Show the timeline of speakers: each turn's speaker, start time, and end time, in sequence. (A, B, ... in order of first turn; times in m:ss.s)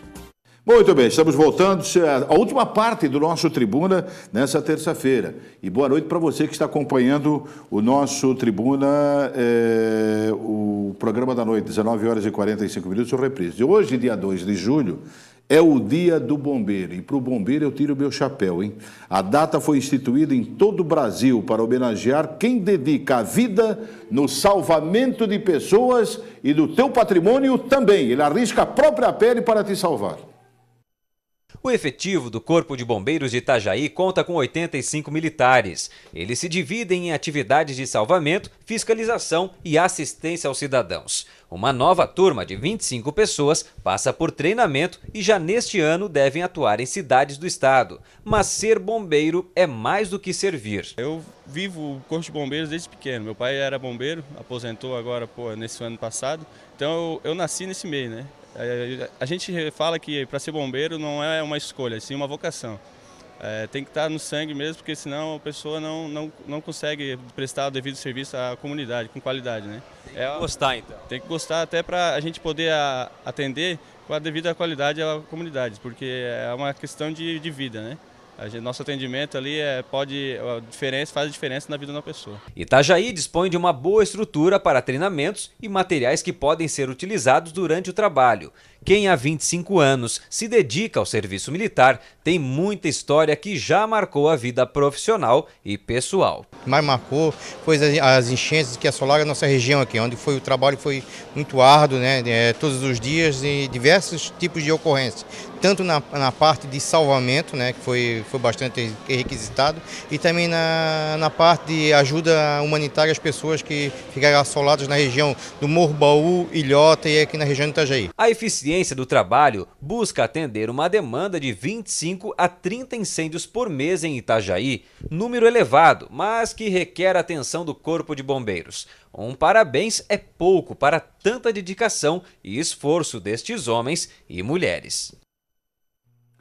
0:00.6-0:30.3 A
0:31.6-0:50.9 B
0:51.0-1:02.8 C
1:03.4-1:10.5 C
1:10.1-1:11.0 B
1:11.1-1:22.4 C
1:22.6-1:36.4 B
1:36.6-1:58.1 D
1:58.2-2:15.1 B